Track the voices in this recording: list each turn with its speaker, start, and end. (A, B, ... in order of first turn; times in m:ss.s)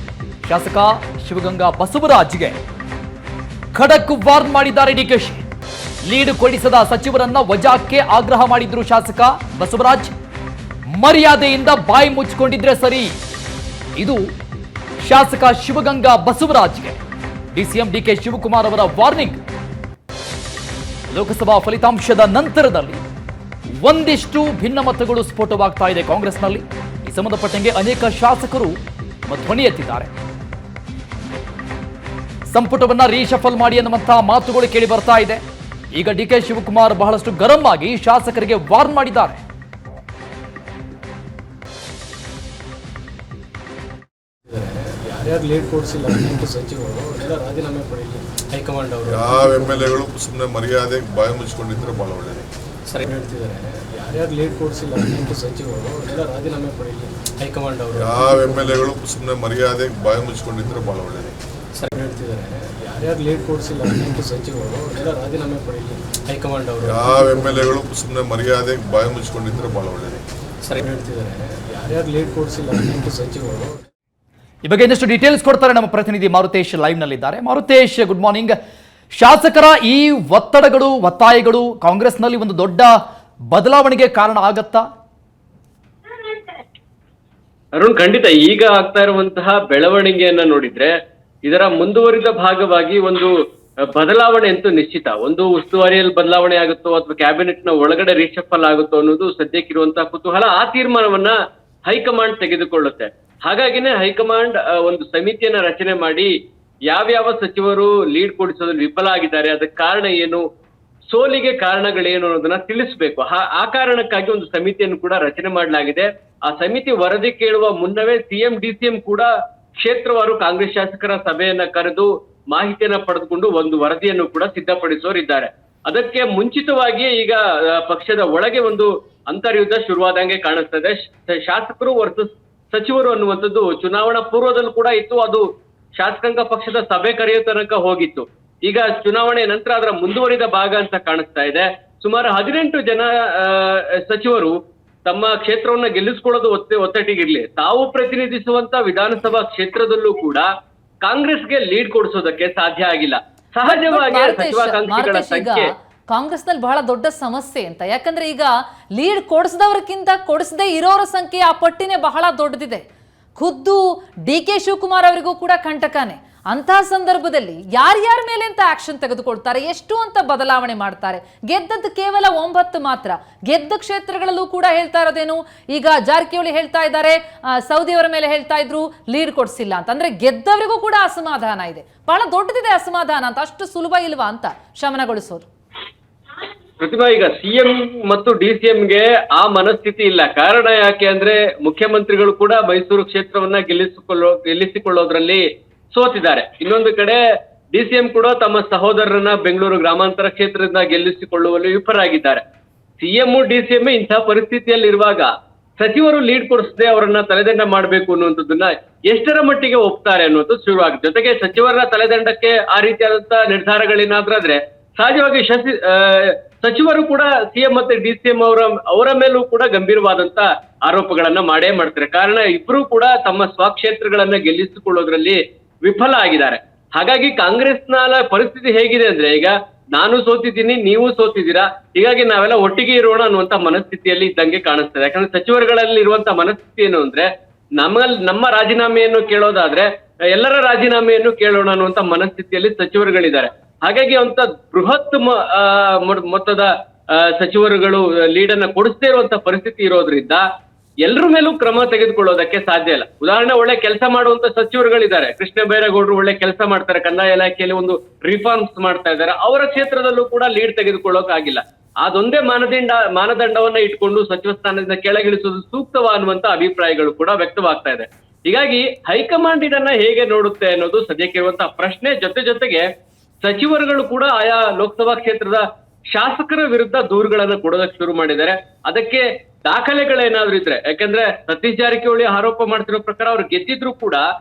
0:00.4-0:02.6 A
0:03.7-0:05.4 A
0:06.0-0:10.1 A
0:10.9-0:13.2 A
0:15.0-0:17.0 A
0:17.5-0:19.4 A
0:21.1-0:23.0 A
0:23.8-0:30.1 A
0:32.5-0:35.4 A
0:35.9-0:39.4 A
0:44.5-0:50.0 B
0:49.1-0:52.5 C
0:52.9-0:58.9 B
0:58.0-1:01.4 C
1:01.8-1:07.8 B
1:06.8-1:10.2 C
1:10.7-1:13.8 B
1:14.6-1:18.6 A
1:19.2-1:23.0 A
1:23.5-1:24.8 A
1:27.8-1:30.9 D
1:31.4-1:33.3 D
1:33.9-1:41.3 D
1:41.9-1:46.3 D
1:46.9-1:50.4 D
1:51.1-2:15.4 D
2:16.0-2:24.6 D
2:25.1-2:30.5 D
2:31.0-2:35.7 D
2:33.7-2:42.8 E
2:43.4-3:05.5 E
3:06.8-3:17.2 D
3:17.7-3:22.4 D
3:23.0-3:57.3 D
3:57.8-4:10.4 D
4:11.0-4:32.9 D
4:33.4-4:44.2 D